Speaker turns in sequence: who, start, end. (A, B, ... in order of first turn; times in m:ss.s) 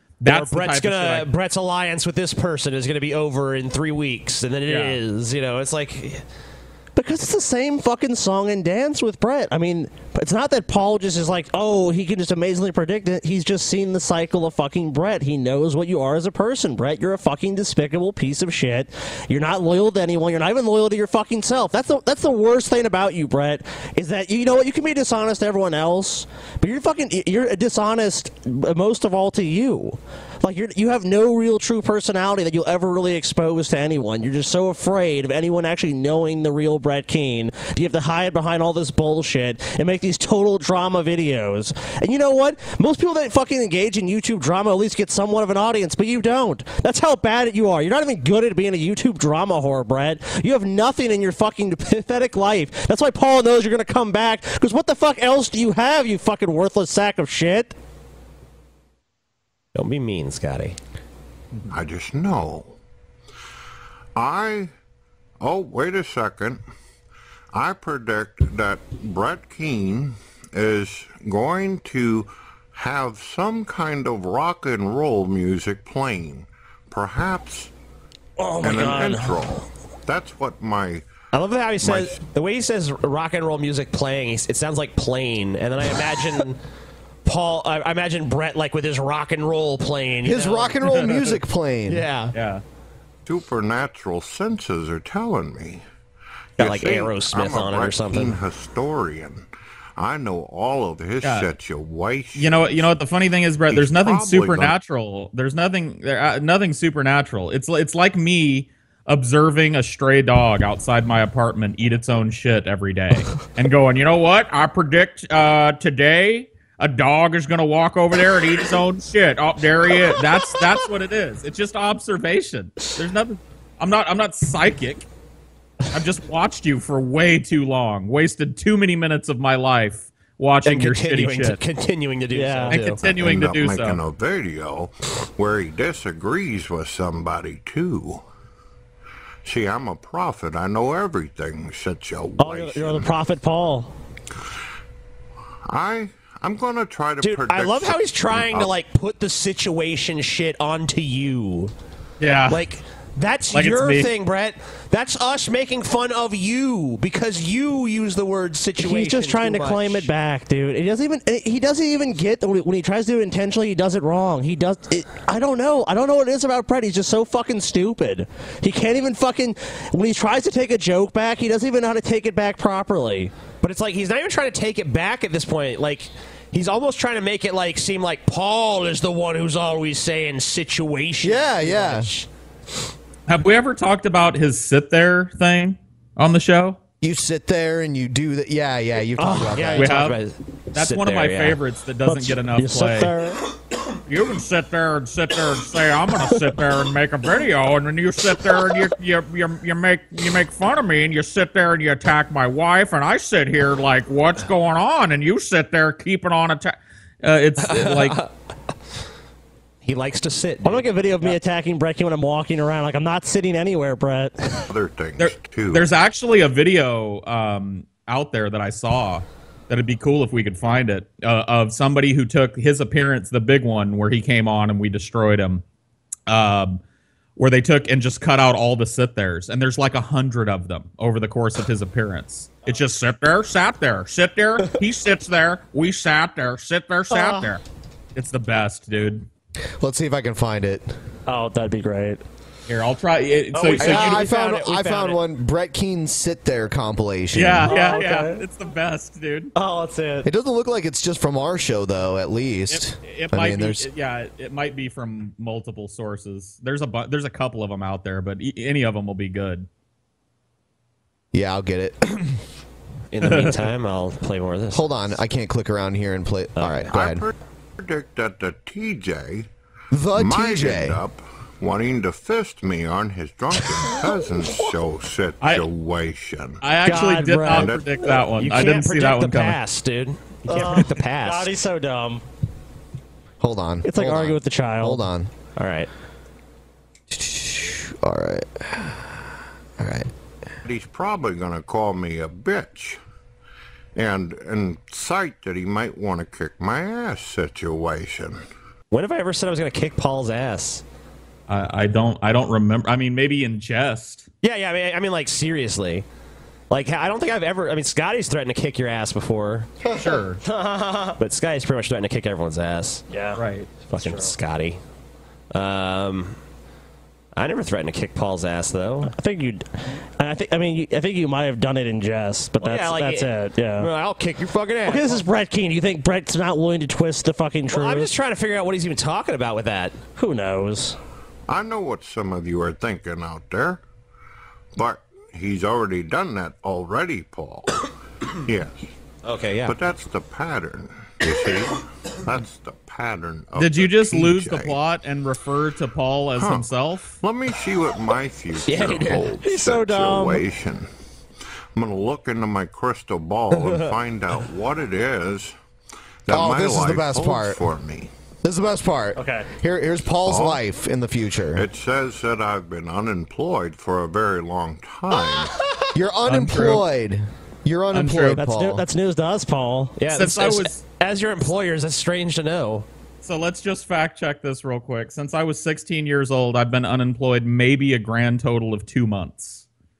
0:00.2-0:01.2 A
0:00.2-0:06.2 B
0:04.7-0:05.0 A
0:07.0-0:57.7 C
0:59.7-1:00.8 B
1:01.7-1:02.8 D
1:04.2-1:04.7 D
1:05.4-1:06.6 D
1:07.5-1:17.7 D
1:18.4-1:19.4 C
1:18.6-1:21.0 D
1:21.3-1:26.6 B
1:21.8-1:22.2 D
1:27.2-1:31.1 B
1:30.2-1:32.0 E
1:30.8-1:31.3 A
1:31.9-1:32.3 B
1:32.3-1:32.6 A
1:33.2-1:35.8 D
1:36.6-1:38.4 B
1:36.6-1:42.9 D
1:42.3-2:05.0 A
1:43.7-1:44.7 D
2:05.9-2:11.6 A
2:10.6-2:13.1 B
2:12.3-2:12.8 C
2:12.7-2:14.0 A
2:13.0-2:18.2 D
2:19.4-2:23.1 D
2:22.4-2:23.9 C
2:25.7-2:28.7 D
2:27.2-2:31.7 B
2:32.2-2:32.6 A
2:32.5-2:40.1 B
2:33.5-2:34.1 A
2:38.8-2:53.3 C
2:53.6-3:02.3 B
3:01.2-3:02.1 E
3:03.3-3:06.8 A
3:07.0-3:10.0 E
3:09.2-3:09.8 C
3:09.5-3:11.6 B
3:09.8-3:10.2 A
3:10.7-3:13.1 A
3:12.0-3:13.4 C
3:14.1-3:28.2 A
3:27.6-3:28.3 B
3:29.8-3:31.4 B
3:30.6-3:34.5 C
3:34.7-3:35.9 D
3:35.2-3:45.6 A
3:46.3-3:46.8 A
3:47.4-3:57.6 A
3:57.1-3:57.5 C
3:58.1-3:59.2 A
3:59.8-4:00.9 E
4:01.3-4:02.2 C
4:02.7-4:04.2 A
4:03.7-4:05.2 B
4:03.8-4:07.9 E
4:07.3-4:09.5 A
4:07.6-4:08.4 C
4:09.5-4:10.3 C
4:10.2-4:13.9 E
4:12.7-4:19.7 A
4:21.3-4:22.4 E
4:23.1-4:24.9 B
4:23.2-4:23.6 A
4:24.7-4:27.2 E
4:26.6-4:26.9 B
4:26.9-4:29.5 D
4:29.9-4:31.0 E
4:30.1-4:36.7 D
4:35.4-4:35.6 A
4:36.6-4:39.6 A
4:36.8-4:37.7 C
4:37.5-4:37.9 D
4:38.3-4:41.5 B
4:40.5-4:42.2 C
4:43.4-4:45.3 E
4:43.8-4:45.0 C
4:45.6-4:45.9 B
4:47.1-4:49.2 E
4:49.8-4:50.1 E
4:50.6-4:53.0 D
4:54.0-4:58.4 D
4:58.9-5:00.8 B
5:01.5-5:04.3 A
5:04.4-5:06.0 B
5:06.7-5:09.7 B
5:09.9-5:10.4 A
5:10.4-5:11.1 C
5:11.2-5:13.0 B
5:13.1-5:13.4 C
5:13.4-5:13.7 A
5:13.9-5:14.8 B
5:13.9-5:14.3 C
5:15.5-5:16.4 B
5:17.3-5:19.1 B
5:19.0-5:23.9 C
5:22.6-5:25.2 B
5:24.8-5:28.1 C
5:27.7-5:30.0 B
5:30.2-5:31.0 C
5:31.5-5:33.8 D
5:34.7-5:37.8 D
5:38.4-5:38.9 D
5:39.2-5:39.7 B
5:39.6-5:44.8 D
5:43.6-5:47.1 A
5:46.4-5:50.9 D
5:48.6-5:49.3 B
5:49.4-5:50.4 C
5:51.7-5:55.5 D
5:53.6-5:53.8 B
5:56.2-5:58.1 D
5:56.3-5:57.6 E
5:58.4-6:01.6 E
5:59.2-5:59.5 C
6:00.2-6:00.6 D
6:01.5-6:05.5 D
6:05.9-6:08.8 E
6:06.2-6:06.8 A
6:07.9-6:08.4 A
6:08.4-6:09.9 C
6:10.0-6:12.8 B
6:10.1-6:10.8 A
6:13.2-6:19.6 A